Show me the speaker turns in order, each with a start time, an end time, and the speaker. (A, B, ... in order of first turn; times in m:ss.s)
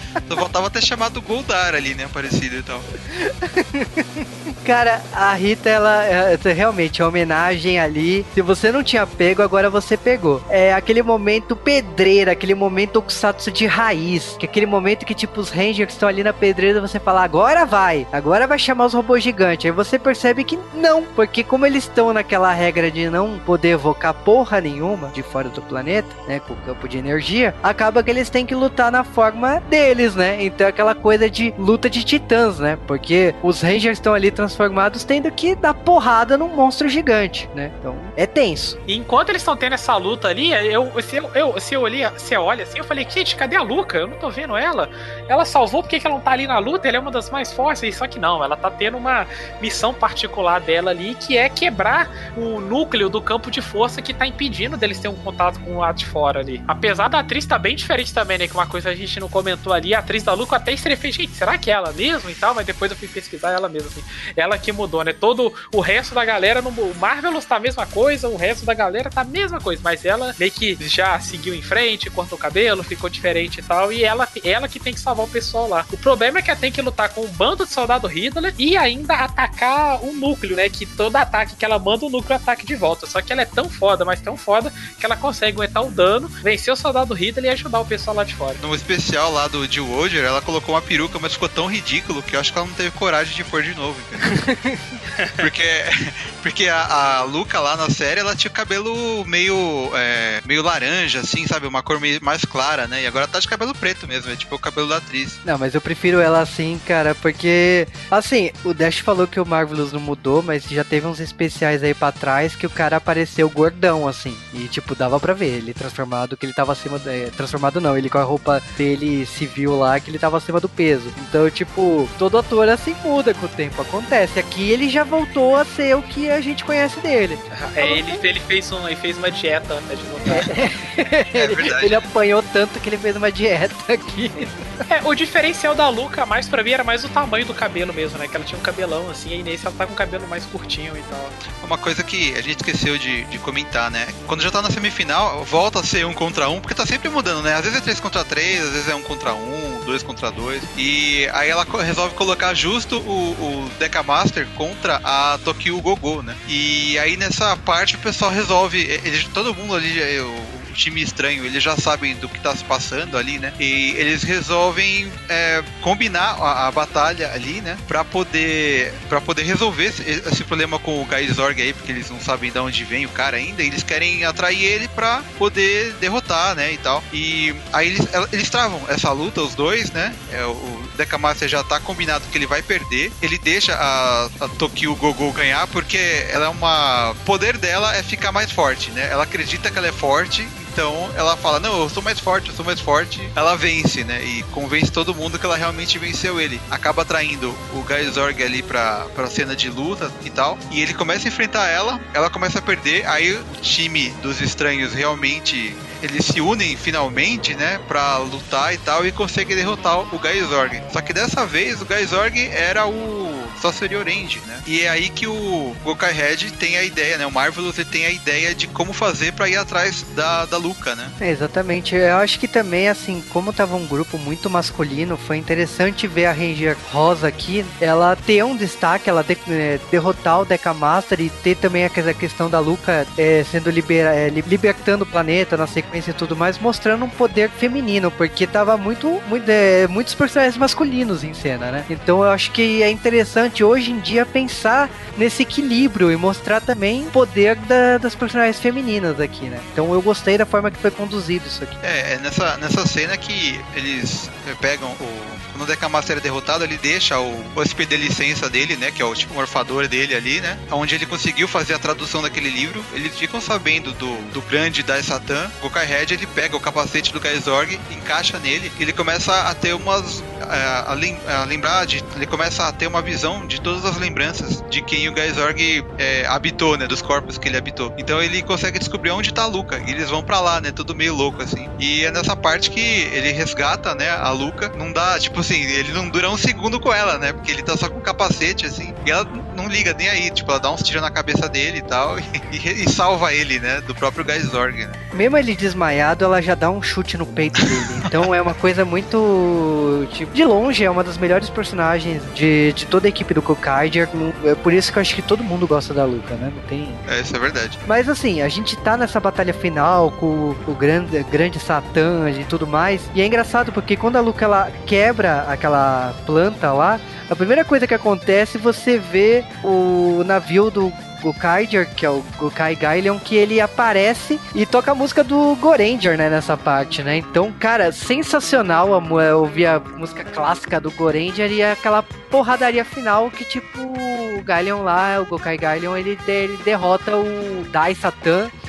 0:00.2-0:02.9 A
0:03.1-0:38.8 B
0:38.9-1:28.6 C
1:28.6-1:34.4 A
1:34.4-1:35.0 B
1:35.2-1:35.5 C
1:35.4-1:45.4 A
1:45.4-2:08.2 B
2:07.5-2:10.5 C
2:10.3-2:14.6 B
2:11.3-2:12.0 A
2:14.9-2:21.4 C
2:21.6-3:41.1 A
3:41.2-4:11.8 B
4:11.8-4:55.0 A
4:55.1-5:07.0 B
4:57.6-4:58.2 A
5:07.1-5:07.8 A
5:07.8-5:38.5 B